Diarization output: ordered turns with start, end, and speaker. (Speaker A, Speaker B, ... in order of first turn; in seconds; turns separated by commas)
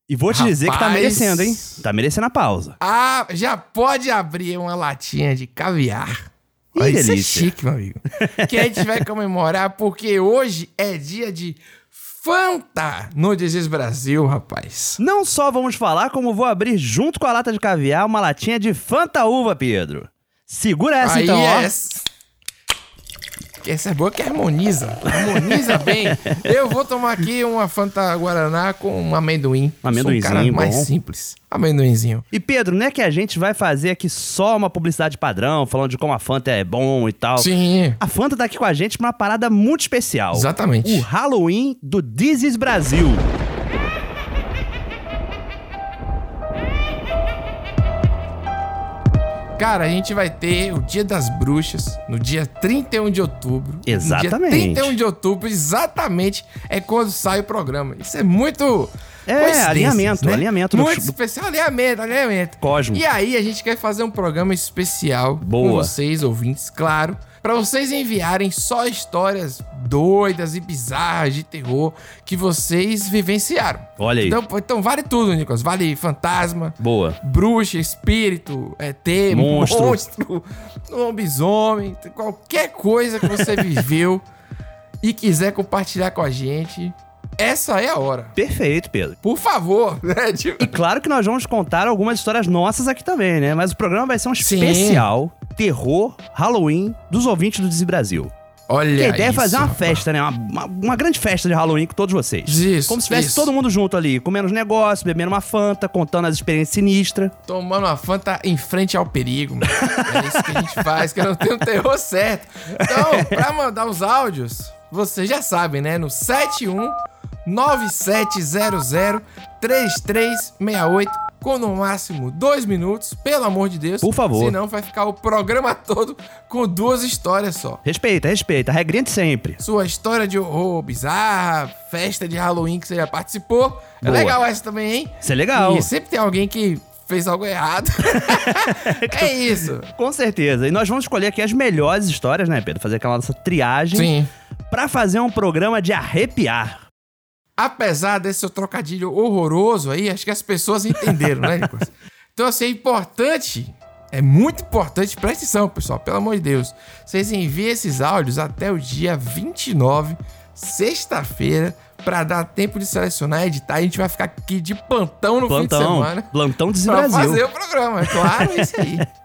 Speaker A: 0.1-2.8, Speaker B: 0.3-1.8, Speaker B: 2.8-15.0, Speaker A: 6.8-7.5, Speaker A: 8.4-8.8, Speaker A: 15.0-21.7, Speaker B: 21.0-22.1, Speaker B: 23.6-32.3, Speaker A: 25.1-26.4, Speaker A: 29.8-30.9, Speaker A: 32.3-37.5, Speaker B: 37.4-38.0, Speaker A: 38.0-43.2, Speaker B: 40.3-41.0, Speaker B: 49.6-84.2, Speaker A: 53.9-55.0, Speaker A: 59.3-61.1, Speaker A: 62.6-63.0, Speaker A: 65.4-65.9, Speaker A: 74.0-74.4, Speaker A: 76.8-77.2, Speaker A: 79.3-80.0, Speaker B: 85.0-88.4, Speaker A: 88.4-89.2, Speaker B: 89.2-90.7, Speaker A: 90.6-98.3, Speaker B: 94.4-95.1, Speaker B: 98.7-100.0, Speaker A: 99.0-107.3, Speaker B: 102.5-103.5, Speaker B: 107.5-127.8, Speaker A: 109.8-110.8, Speaker A: 112.9-113.3, Speaker A: 124.0-124.6, Speaker A: 127.8-129.6, Speaker B: 129.6-139.9, Speaker A: 134.0-134.4, Speaker A: 135.2-135.9, Speaker A: 138.3-139.3, Speaker A: 139.9-144.1, Speaker B: 143.9-144.3, Speaker A: 144.7-146.8, Speaker B: 147.6-166.3, Speaker A: 165.5-167.4, Speaker B: 166.9-169.1, Speaker A: 168.1-168.8